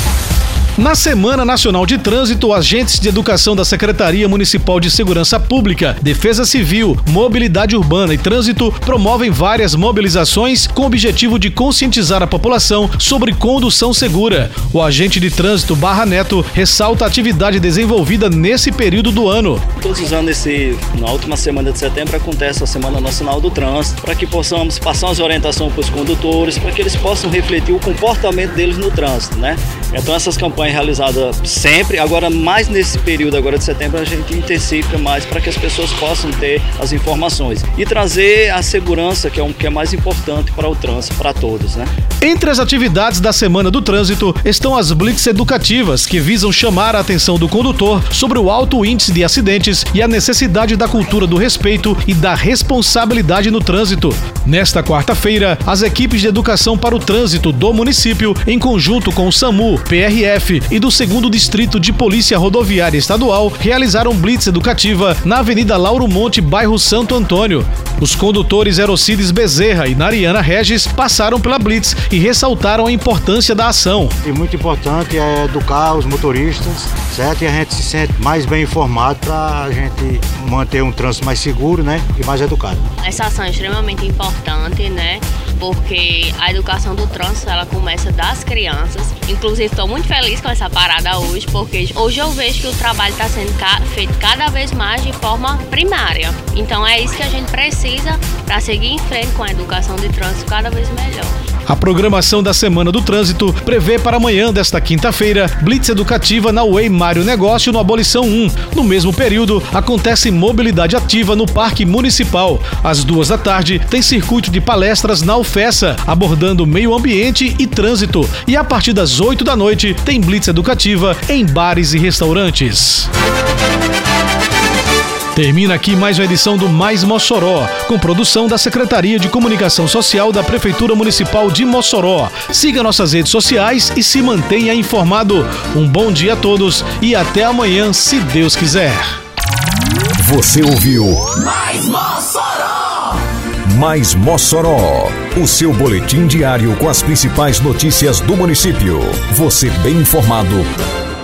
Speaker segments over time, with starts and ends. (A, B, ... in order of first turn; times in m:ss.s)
0:00.8-0:19.6 A
0:19.8-0:41.9 B
0:42.2-1:14.2 A
1:14.2-1:22.9 C
1:23.0-1:41.3 D
1:41.7-2:03.1 A
2:05.3-2:19.1 A
2:20.2-2:21.4 E
2:22.2-2:22.8 D
2:23.6-2:30.7 E